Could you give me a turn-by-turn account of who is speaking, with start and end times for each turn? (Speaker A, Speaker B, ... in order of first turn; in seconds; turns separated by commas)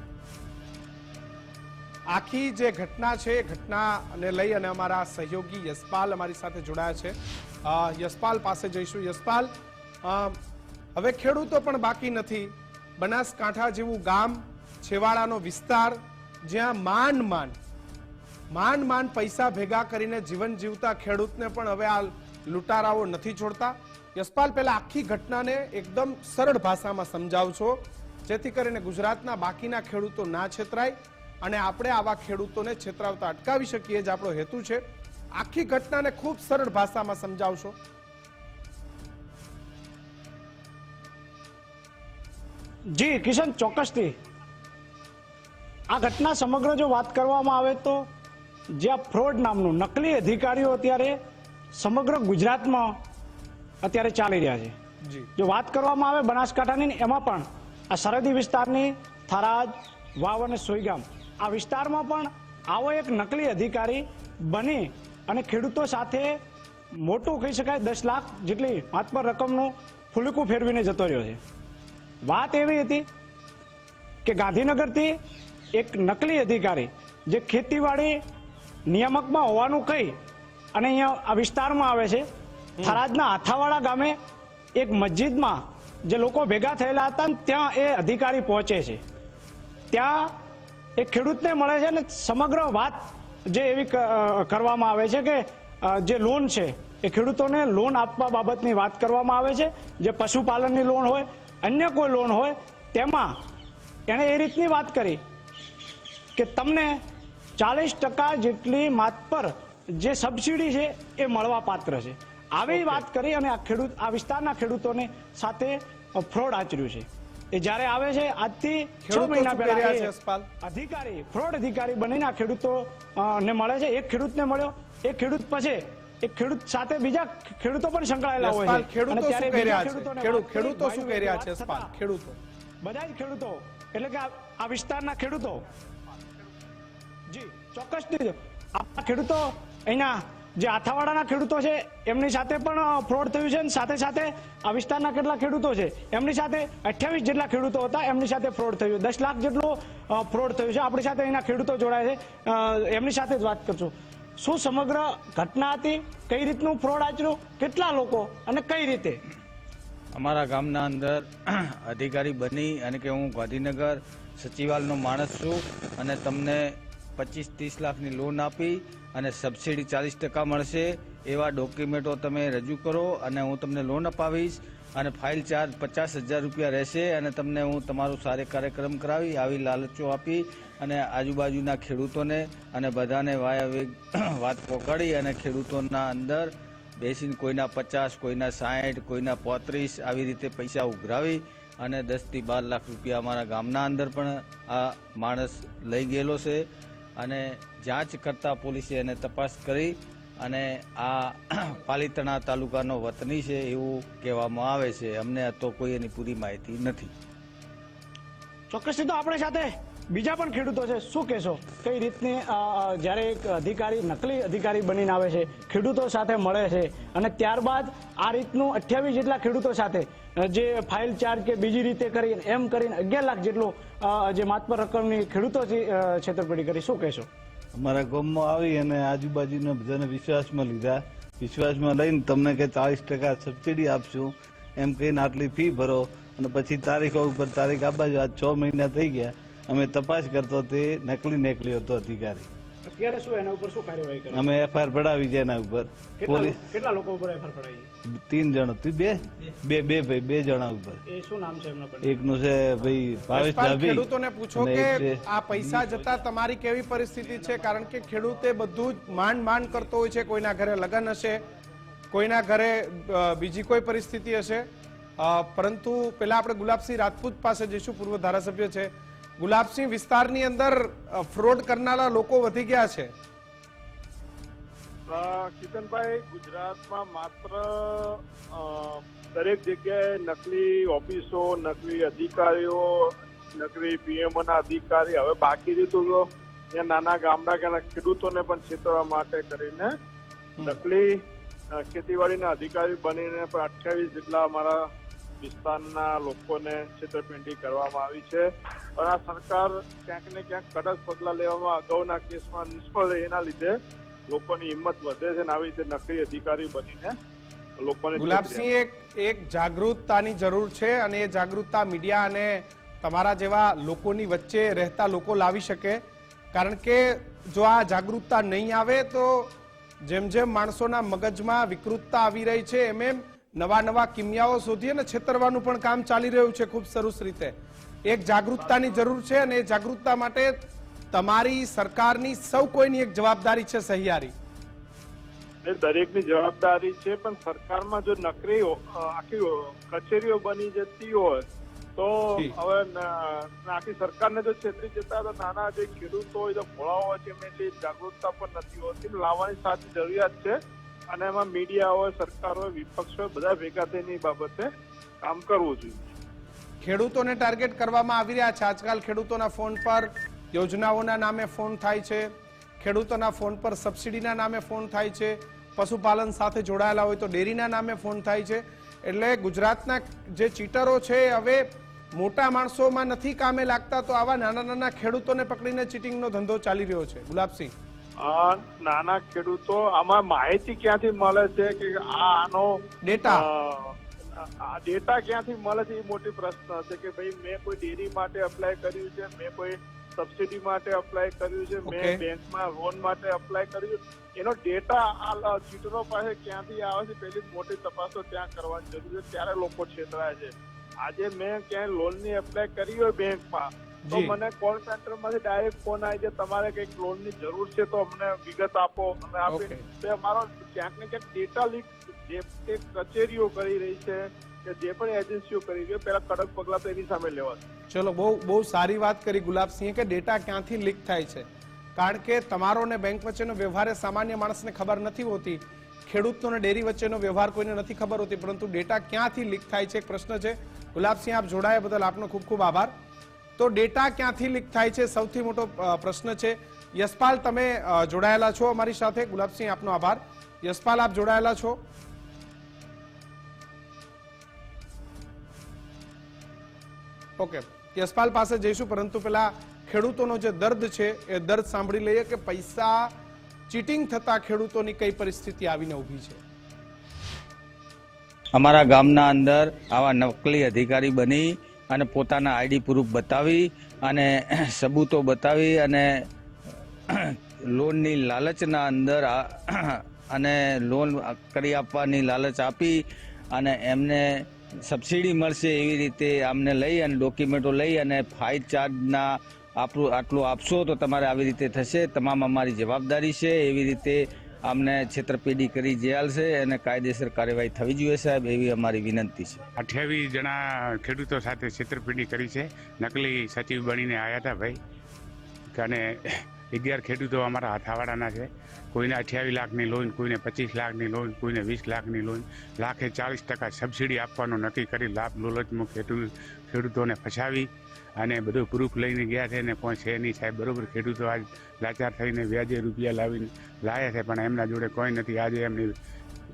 Speaker A: 2.1-9.5, Speaker A: 10.0-10.4, Speaker A: 10.9-17.6, Speaker A: 18.5-34.8, Speaker A: 35.3-37.8, Speaker B: 42.9-44.1, Speaker B: 45.9-48.0, Speaker B: 48.7-51.2, Speaker B: 51.7-53.0, Speaker B: 53.8-54.7, Speaker A: 55.0-55.3, Speaker B: 55.4-66.4, Speaker B: 66.9-71.4, Speaker B: 72.2-73.0, Speaker B: 74.2-75.2, Speaker B: 75.7-78.2, Speaker B: 78.9-80.2, Speaker B: 80.7-82.2, Speaker B: 82.8-84.2, Speaker B: 84.8-89.0, Speaker B: 89.9-90.3, Speaker B: 91.0-103.4, Speaker B: 104.1-105.2, Speaker B: 106.3-107.0, Speaker B: 107.6-120.1, Speaker A: 112.7-113.0, Speaker A: 119.0-120.5, Speaker B: 120.6-131.9, Speaker A: 128.4-132.4, Speaker B: 132.8-135.6, Speaker B: 137.3-159.2, Speaker C: 160.1-196.7, Speaker C: 197.2-207.1, Speaker B: 208.7-227.3, Speaker D: 227.7-242.5, Speaker B: 242.8-244.5, Speaker D: 244.3-246.6, Speaker B: 246.2-247.9, Speaker D: 248.1-251.0, Speaker B: 251.1-252.2, Speaker D: 252.0-255.9, Speaker A: 253.3-261.4, Speaker A: 262.1-273.1, Speaker E: 275.1-289.9, Speaker E: 290.6-291.2, Speaker E: 291.7-294.8, Speaker E: 295.4-303.8, Speaker E: 304.3-307.2, Speaker E: 307.8-308.7, Speaker A: 308.2-316.0, Speaker A: 316.5-330.6, Speaker E: 328.7-329.0, Speaker A: 331.1-334.3, Speaker E: 335.6-341.4, Speaker E: 342.0-350.6, Speaker E: 351.1-354.7, Speaker E: 355.2-356.1, Speaker A: 356.8-377.7, Speaker E: 378.2-417.6, Speaker A: 383.0-383.4, Speaker A: 391.9-392.2, Speaker A: 404.1-404.3, Speaker A: 409.5-409.8, Speaker A: 417.9-432.9, Speaker A: 433.6-441.8, Speaker A: 447.4-453.1, Speaker A: 453.7-456.4, Speaker C: 458.5-466.3, Speaker C: 467.1-489.6, Speaker F: 489.8-494.8, Speaker F: 495.7-515.9